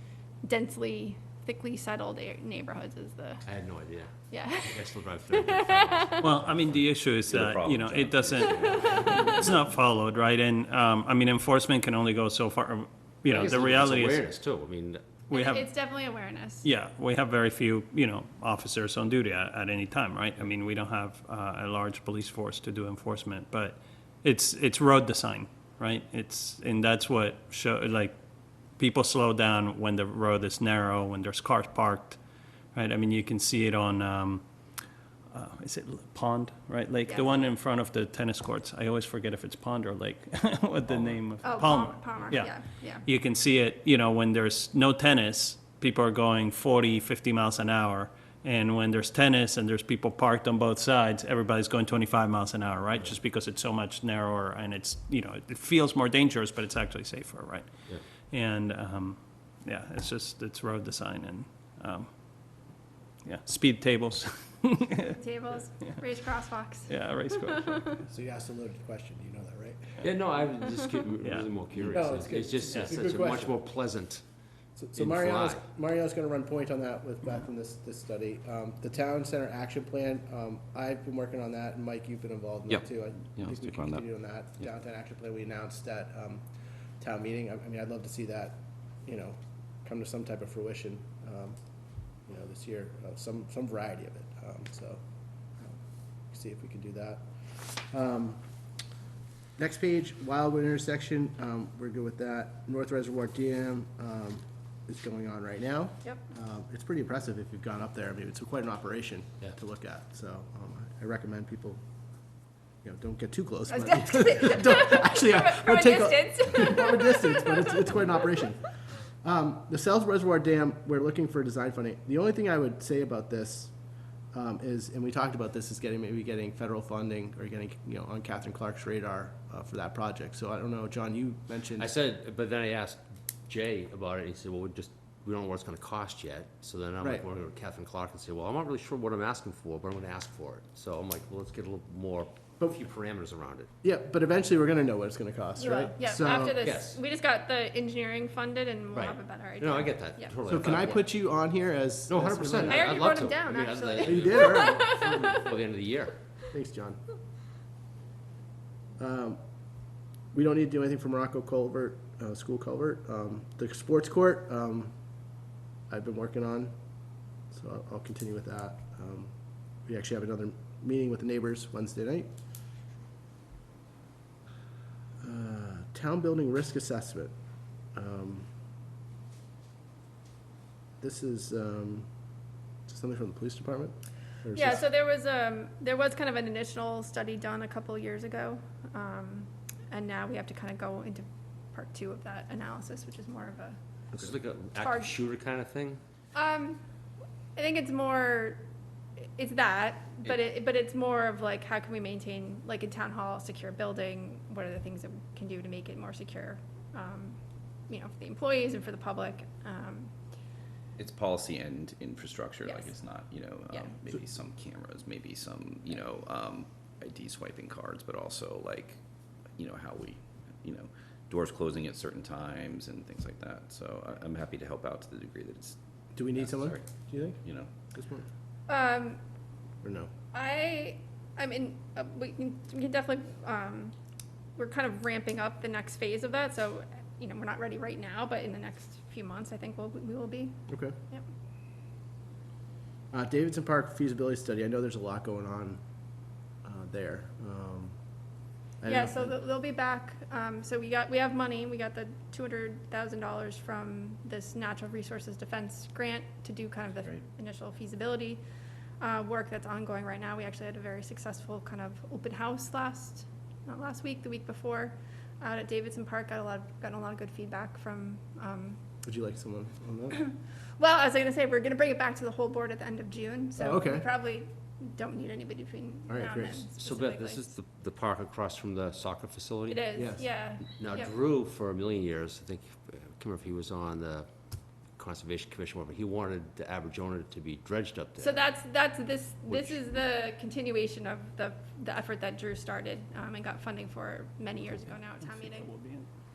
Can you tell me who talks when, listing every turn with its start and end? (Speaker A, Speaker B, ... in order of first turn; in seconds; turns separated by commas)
Speaker A: 0.5-3.5, Speaker B: 3.5-4.1, Speaker A: 4.3-6.3, Speaker B: 4.6-6.8, Speaker C: 6.2-14.2, Speaker D: 7.3-9.5, Speaker A: 8.9-9.3, Speaker B: 13.3-15.0, Speaker C: 15.3-15.7, Speaker A: 15.3-16.7, Speaker C: 16.6-28.1, Speaker C: 28.8-32.2, Speaker C: 32.7-34.4, Speaker C: 35.3-57.7, Speaker A: 37.1-37.4, Speaker A: 41.4-43.1, Speaker C: 58.3-62.1, Speaker C: 63.2-65.2, Speaker A: 65.1-67.8, Speaker C: 66.9-67.9, Speaker E: 68.1-70.1, Speaker B: 70.0-74.2, Speaker C: 71.2-71.6, Speaker E: 71.9-73.5, Speaker E: 74.8-86.4, Speaker B: 75.0-75.6, Speaker D: 82.7-84.0, Speaker E: 87.0-91.6, Speaker E: 92.3-95.0, Speaker E: 96.3-98.4, Speaker E: 99.6-111.8, Speaker E: 112.8-118.7, Speaker A: 113.7-117.8, Speaker E: 119.2-123.7, Speaker E: 124.3-131.9, Speaker B: 131.8-143.7, Speaker E: 143.8-146.6, Speaker A: 145.6-150.4, Speaker B: 146.6-147.0, Speaker B: 148.9-151.1, Speaker E: 150.5-153.1, Speaker B: 152.1-156.2, Speaker A: 152.6-155.5, Speaker E: 154.0-155.5, Speaker E: 156.5-157.0, Speaker E: 159.0-159.4, Speaker E: 160.3-164.9, Speaker E: 165.9-166.7, Speaker E: 167.5-169.3, Speaker E: 169.9-172.3, Speaker E: 175.2-177.3, Speaker E: 177.9-178.5, Speaker E: 181.0-182.1, Speaker E: 182.9-184.9, Speaker A: 184.5-193.8, Speaker B: 194.1-196.0, Speaker A: 194.8-195.2, Speaker A: 196.3-196.8, Speaker A: 197.6-198.6, Speaker A: 199.4-210.1, Speaker D: 211.0-219.0, Speaker D: 219.6-225.8, Speaker E: 226.2-227.4, Speaker D: 226.4-227.7, Speaker E: 227.9-228.3, Speaker A: 228.7-229.2, Speaker E: 229.8-230.1, Speaker A: 230.3-233.9, Speaker A: 234.6-240.6, Speaker E: 240.7-240.9, Speaker E: 243.1-245.8, Speaker E: 246.6-247.9, Speaker E: 248.8-249.4, Speaker A: 248.9-258.4, Speaker A: 259.0-268.8, Speaker E: 269.0-270.2, Speaker A: 270.2-277.4, Speaker E: 273.6-274.1, Speaker E: 276.1-276.7, Speaker B: 276.8-280.2, Speaker A: 279.7-281.1, Speaker E: 280.0-280.2, Speaker B: 280.7-288.5, Speaker A: 288.2-295.7, Speaker B: 289.5-290.0, Speaker C: 295.2-296.1